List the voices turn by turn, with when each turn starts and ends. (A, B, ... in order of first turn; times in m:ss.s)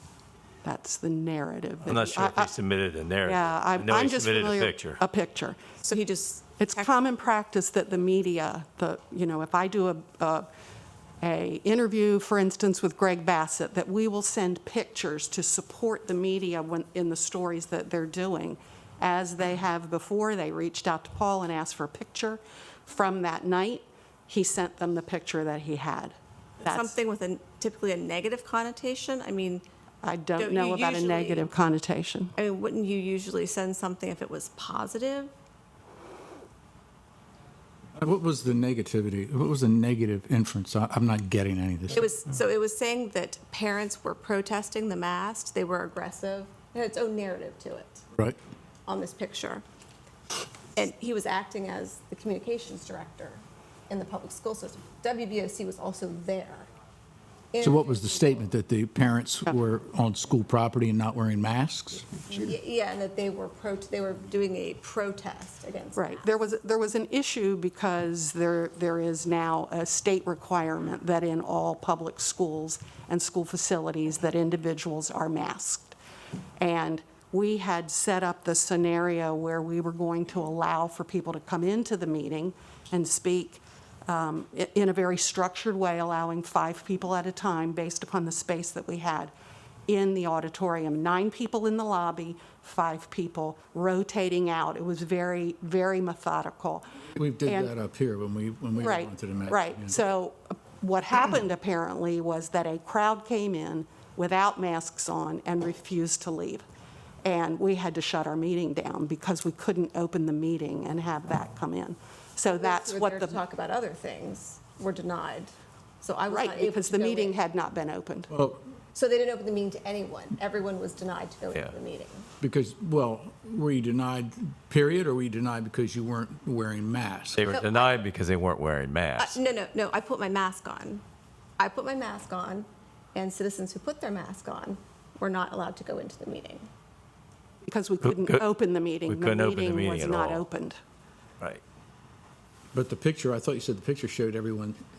0:00.6-0:02.5 A
0:01.8-0:05.0 B
0:03.2-0:05.8 A
0:05.8-0:06.9 C
0:06.6-0:10.5 A
0:11.2-0:26.9 A
0:26.6-0:29.6 C
0:30.0-0:32.3 A
0:30.4-0:31.5 C
0:32.4-0:35.3 C
0:38.0-0:42.0 D
0:41.9-0:48.0 C
0:48.9-0:49.6 C
0:50.8-0:56.7 C
0:57.5-0:58.4 C
0:57.6-1:02.4 D
1:02.3-1:06.4 C
1:06.0-1:16.0 A
1:16.6-1:29.3 A
1:29.9-1:36.8 A
1:37.2-1:40.0 D
1:37.4-1:37.7 A
1:38.8-1:46.6 A
1:47.2-1:53.4 A
1:52.5-1:57.4 C
1:56.3-1:58.3 A
1:58.3-1:58.6 D
1:58.9-2:02.3 C
2:02.4-2:07.5 D
2:07.4-2:09.4 B
2:07.5-2:08.0 C
2:09.2-2:11.0 C
2:11.6-2:16.7 C
2:17.6-2:20.8 A
2:18.0-2:18.4 B
2:19.1-2:20.4 B
2:22.7-2:24.8 D